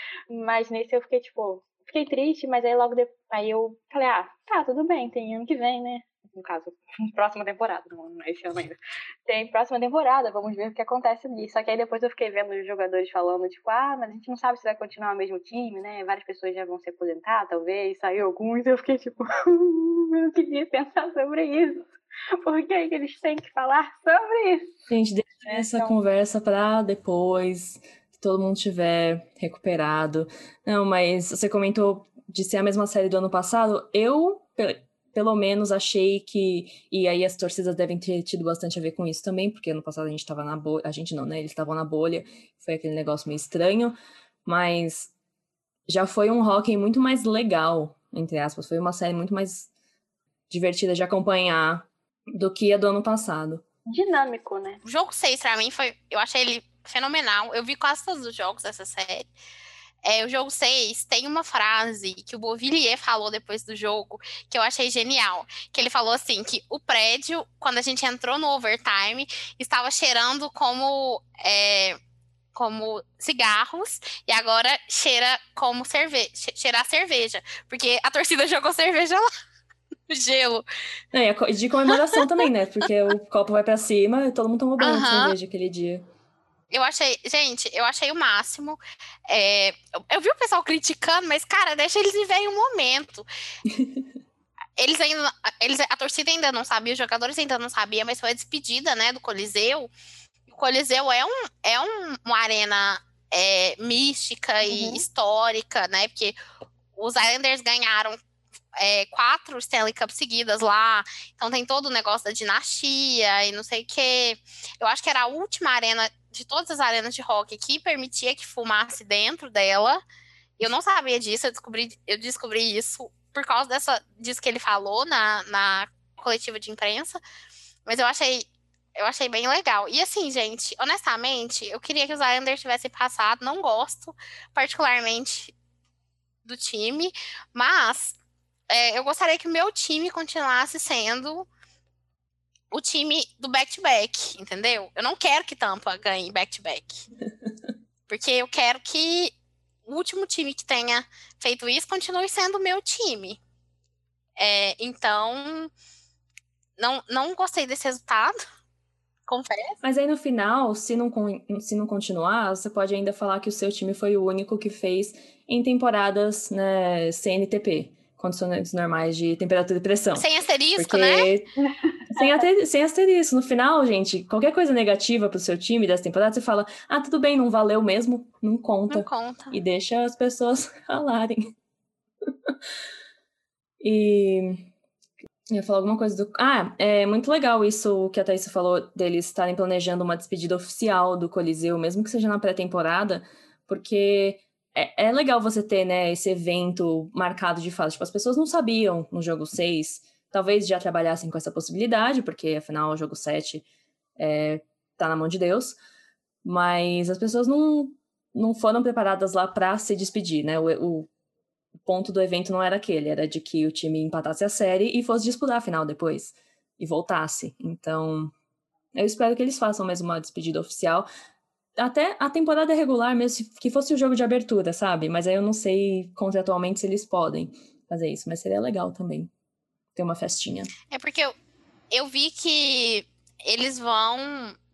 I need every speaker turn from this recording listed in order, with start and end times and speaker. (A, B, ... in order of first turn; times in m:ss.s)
0:00.3-0:24.8 A
0:24.9-0:45.1 B
0:25.5-0:26.0 A
0:45.9-0:49.7 B
0:50.5-0:53.6 B
0:53.9-0:54.8 A
0:54.8-0:59.3 C
1:00.0-1:12.0 C
1:12.5-1:19.3 C
1:20.1-1:20.6 C
1:21.1-1:26.0 B
1:24.8-1:25.4 C
1:26.7-1:33.3 C
1:33.7-1:34.0 B
1:34.8-1:39.9 C
1:40.5-1:46.4 C
1:44.6-1:45.0 A
1:47.0-1:48.2 C
1:48.8-2:00.0 C
2:00.6-2:07.2 C
2:07.9-2:15.5 C
2:16.4-2:18.2 C
2:18.7-2:21.5 C
2:22.7-2:27.1 C
2:28.1-2:29.3 C
2:29.9-2:33.4 C
2:34.4-2:35.7 C
2:36.8-2:38.4 C
2:39.3-2:39.8 C
2:39.8-2:51.5 B
2:50.2-2:51.3 C
2:51.7-2:52.4 A
2:52.1-3:01.5 B
2:58.9-2:59.6 C
3:03.8-3:04.7 B
3:05.5-3:23.7 B
3:24.2-3:25.8 B
3:26.4-3:31.1 B
3:31.8-3:38.3 B
3:39.0-3:41.1 B
3:41.8-3:49.3 B
3:50.0-3:50.7 B
3:50.9-3:51.4 C
3:51.9-3:54.6 C